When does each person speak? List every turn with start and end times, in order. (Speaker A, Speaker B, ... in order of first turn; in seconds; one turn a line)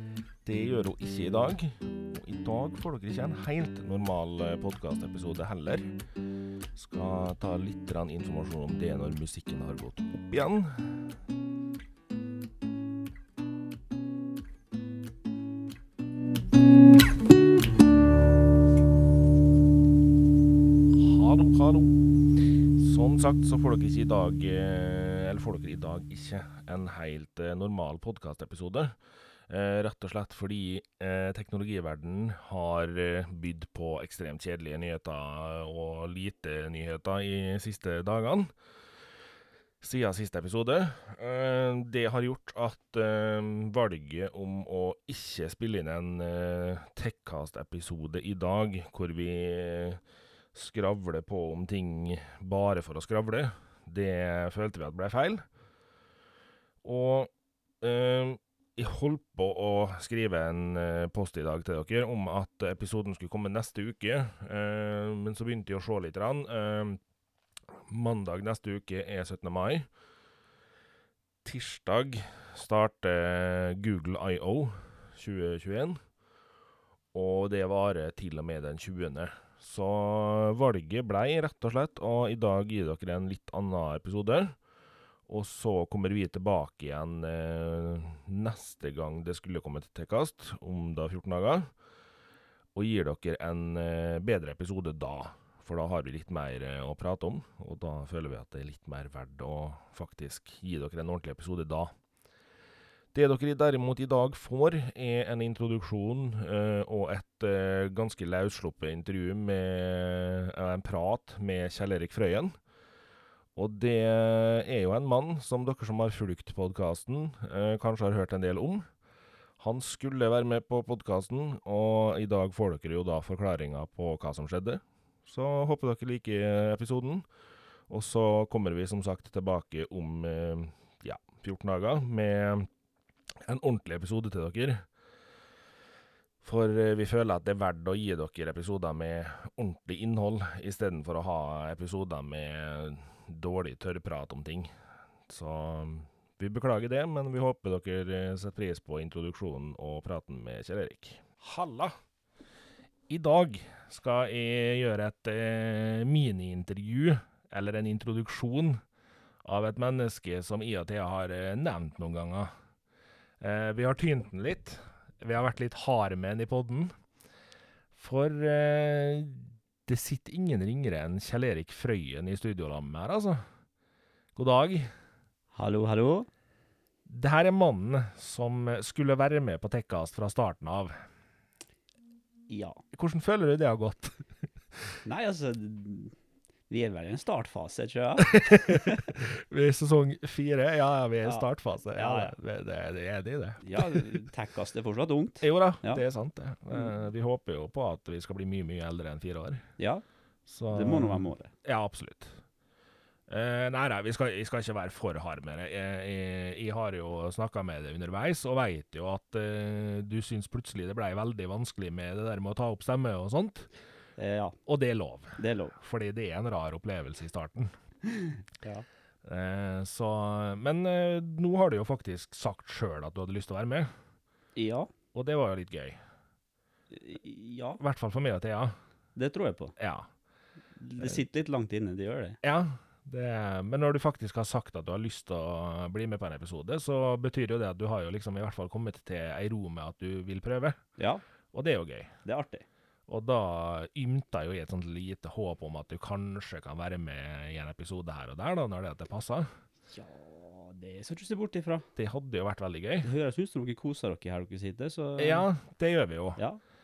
Speaker A: 0.4-5.9
Speaker A: 6.8-11.1
Speaker A: 20.9-29.0
Speaker A: 29.5-38.5
Speaker A: 39.8-50.0
Speaker A: 50.5-55.4
Speaker A: 56.8-67.0
Speaker A: 67.7-69.9
Speaker A: 71.4-76.0
Speaker A: 77.1-84.6
Speaker A: 85.3-91.7
Speaker A: 92.8-101.9
Speaker A: 103.1-112.6
Speaker A: 113.6-118.9
Speaker A: 119.6-127.3
Speaker A: 127.9-132.7
Speaker A: 133.4-134.9
Speaker A: 136.4-144.7
Speaker A: 145.3-151.9
Speaker A: 153.1-158.8
Speaker A: 159.4-162.5
Speaker A: 163.4-166.9
Speaker A: 167.9-173.4
Speaker A: 174.3-174.9
Speaker B: 175.5-176.3
Speaker A: 177.1-180.9
Speaker B: 182.5-182.8
Speaker A: 182.9-184.9
Speaker B: 185.1-186.2
Speaker B: 186.7-189.0
Speaker A: 188.2-194.2
Speaker B: 191.2-192.3
Speaker B: 193.6-196.0
Speaker A: 195.4-199.6
Speaker B: 199.8-200.0
Speaker A: 200.5-202.4
Speaker B: 200.7-201.5
Speaker A: 203.3-213.7
Speaker B: 214.2-214.6
Speaker A: 214.7-217.7
Speaker B: 215.4-215.8
Speaker B: 218.1-218.9
Speaker A: 219.2-223.9
Speaker B: 224.6-224.9
Speaker A: 225.1-226.0
Speaker B: 226.9-227.8
Speaker A: 227.8-228.8
Speaker B: 229.2-229.8
Speaker A: 229.8-230.1
Speaker B: 230.8-232.4
Speaker A: 232.4-240.8
Speaker B: 241.0-241.2
Speaker A: 241.5-242.2
Speaker B: 242.2-242.7
Speaker A: 243.1-249.5
Speaker B: 249.9-251.9
Speaker A: 252.0-253.1
Speaker B: 253.0-255.5
Speaker A: 255.2-256.4